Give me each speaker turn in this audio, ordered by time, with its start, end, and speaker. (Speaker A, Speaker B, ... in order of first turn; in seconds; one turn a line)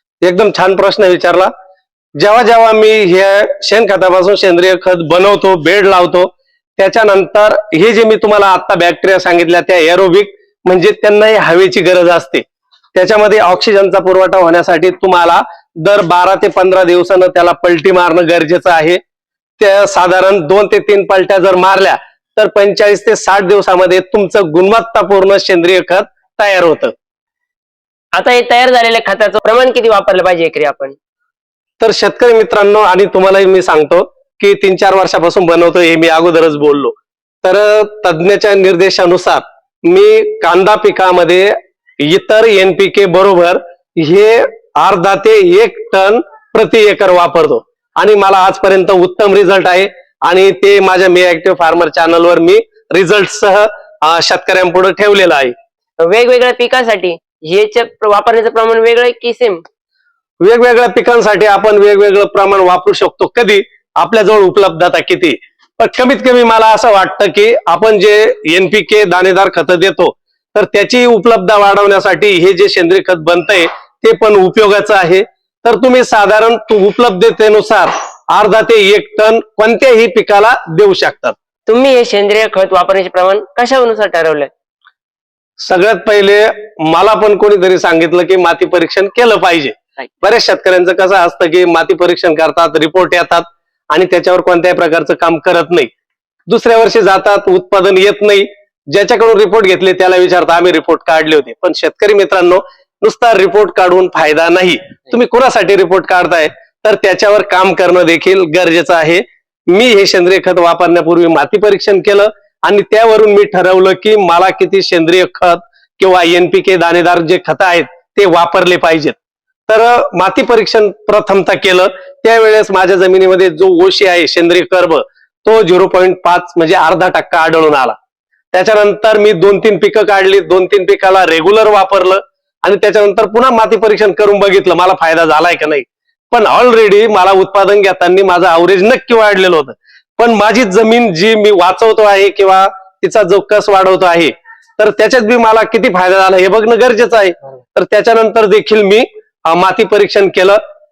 Speaker A: 0.2-1.5
Speaker A: 2.2-12.4
Speaker A: 12.9-19.0
Speaker A: 19.6-26.9
Speaker B: 28.1-31.0
Speaker A: 31.8-55.5
Speaker B: 56.0-59.6
Speaker A: 60.4-81.3
Speaker B: 81.7-84.5
Speaker A: 85.6-95.9
Speaker A: 96.5-119.2
Speaker A: 119.7-128.0
Speaker A: 128.5-150.6